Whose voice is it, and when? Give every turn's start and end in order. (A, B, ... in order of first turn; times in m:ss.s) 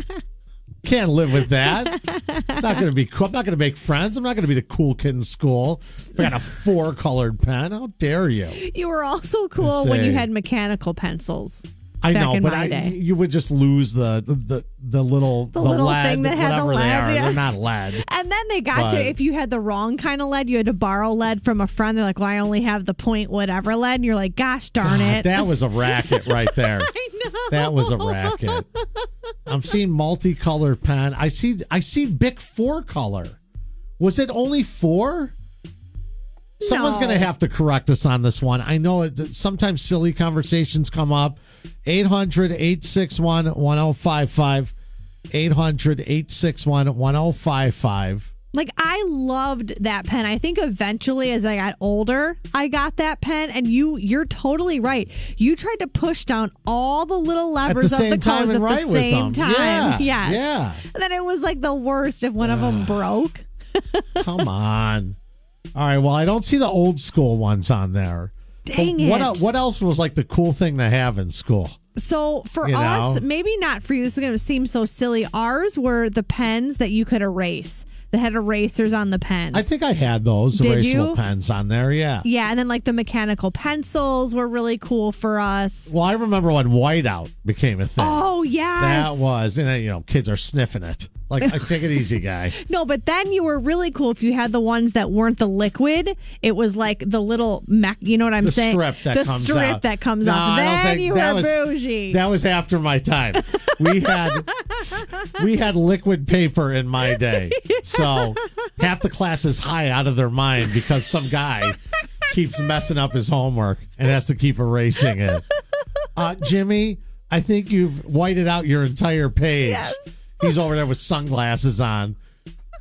0:00.8-0:02.0 A
0:01.6-0:02.9 B
0:02.6-0:08.6 A
0:08.6-0:13.0 B
0:09.6-0:10.2 A
0:12.0-0:18.0 A
0:15.5-0:29.1 B
0:18.7-0:19.2 A
0:24.8-0:26.9 A
0:27.5-0:28.7 A
0:29.5-0:33.4 A
0:34.0-0:35.3 A
0:36.6-0:37.3 B
0:36.6-0:44.8 A
0:45.3-0:48.3 A
0:48.5-1:04.5 B
0:57.7-1:00.8 A
1:02.4-1:03.1 A
1:04.2-1:05.2 A
1:05.8-1:11.8 A
1:08.7-1:09.5 B
1:12.0-1:19.7 B
1:12.6-1:13.2 A
1:19.5-1:22.2 A
1:20.5-1:21.2 B
1:22.2-1:25.9 B
1:25.9-1:28.3 A
1:28.0-1:29.3 B
1:28.8-1:32.6 A
1:31.4-1:42.2 B
1:38.4-1:55.4 A
1:43.4-1:45.2 B
1:47.0-1:48.5 B
1:56.2-2:02.2 A
1:59.6-2:00.6 B